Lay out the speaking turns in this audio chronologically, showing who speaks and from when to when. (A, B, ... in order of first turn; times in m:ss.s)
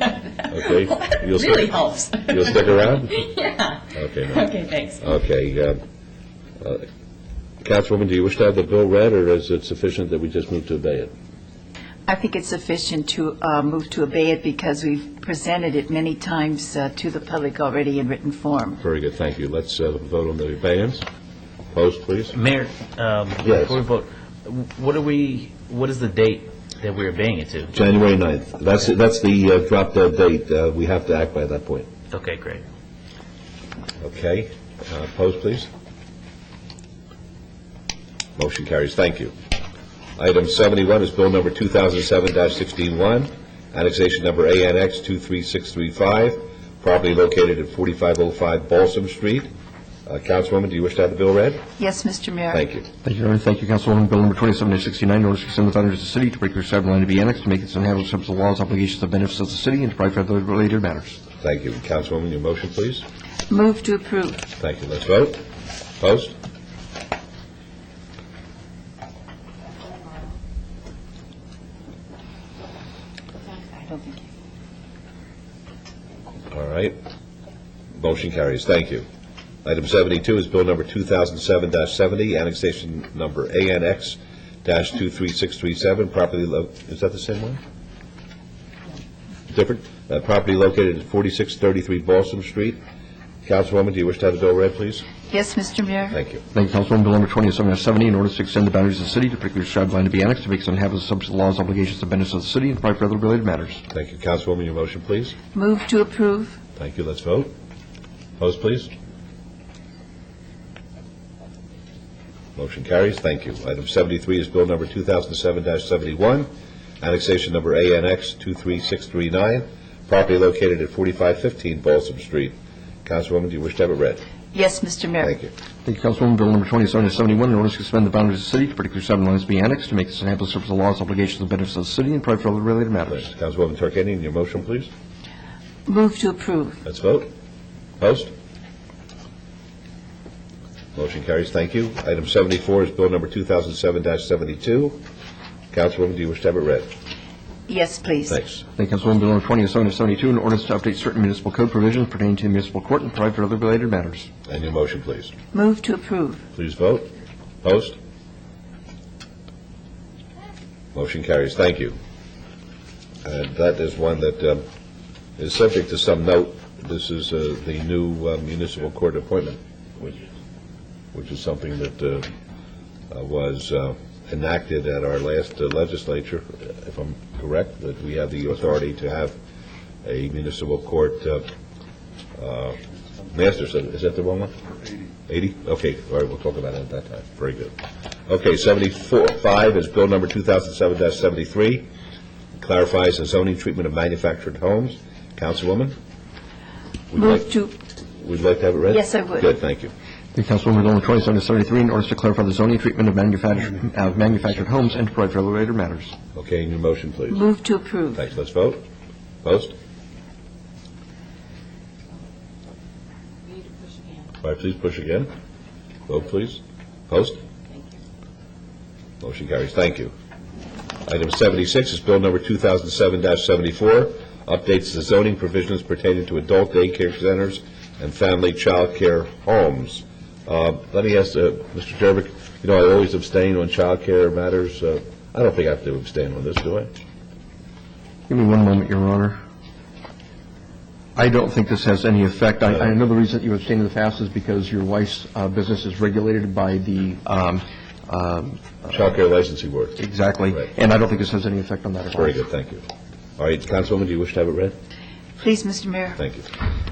0:00.4-0:01.7 A
0:00.8-0:05.1 B
0:02.3-0:03.2 A
0:03.9-0:04.5 A
0:05.0-0:05.8 A
0:06.6-0:06.8 A
0:07.6-0:11.1 A
0:12.1-0:18.8 C
0:18.8-0:21.0 A
0:21.7-0:22.4 A
0:22.3-0:27.8 D
0:23.4-0:23.8 A
0:27.7-0:31.9 A
0:32.1-0:32.6 D
0:34.0-0:35.7 A
0:38.4-0:39.3 A
0:40.2-0:49.5 A
0:50.0-0:51.7 A
0:51.8-0:52.6 C
0:52.5-0:52.9 A
0:53.0-1:01.2 E
1:01.4-1:03.0 A
1:03.5-1:04.4 C
1:04.6-1:05.4 A
1:06.0-1:06.3 A
1:13.5-1:14.3 C
1:16.5-1:17.0 A
1:17.9-1:19.0 A
1:19.6-1:27.6 A
1:29.5-1:32.8 A
1:33.4-1:35.1 A
1:35.3-1:36.2 C
1:36.1-1:36.4 A
1:36.5-1:43.8 E
1:43.9-1:45.4 A
1:45.5-1:46.6 C
1:46.8-1:47.5 A
1:48.4-1:48.9 A
1:52.6-1:56.5 A
1:57.0-2:04.2 A
2:04.5-2:05.3 C
2:05.2-2:05.5 A
2:05.8-2:13.2 E
2:13.1-2:14.9 A
2:15.8-2:16.8 C
2:16.8-2:17.3 A
2:18.0-2:18.3 A
2:20.9-2:25.0 A
2:25.7-2:26.9 A
2:27.7-2:28.4 C
2:28.3-2:28.6 A
2:28.8-2:34.3 E
2:34.5-2:35.3 A
2:35.5-2:36.4 C
2:36.5-2:37.1 A
2:37.6-2:38.0 A
2:40.9-2:42.0 A
2:43.2-2:44.6 A
2:45.4-2:50.2 A
2:51.1-2:52.3 A
2:53.1-2:59.3 A
3:00.0-3:01.4 A
3:02.4-3:02.8 A
3:03.3-3:04.6 A
3:05.3-3:07.7 A
3:08.3-3:11.9 A
3:12.6-3:16.0 A
3:17.1-3:17.5 A
3:17.1-3:17.7 C
3:18.1-3:19.9 A
3:18.9-3:19.5 C
3:20.3-3:26.1 E
3:26.3-3:27.4 A
3:27.3-3:28.2 C
3:28.1-3:28.8 A
3:29.4-3:29.7 A
3:34.4-3:35.3 A
3:36.1-3:37.4 A
3:39.2-3:40.1 A
3:41.0-3:56.9 A
3:58.3-3:59.4 E
4:01.2-4:09.0 E
4:08.9-4:10.0 A
4:10.0-4:12.4 E
4:12.2-4:12.8 A
4:13.4-4:14.7 A
4:15.4-4:16.2 C
4:16.2-4:16.5 A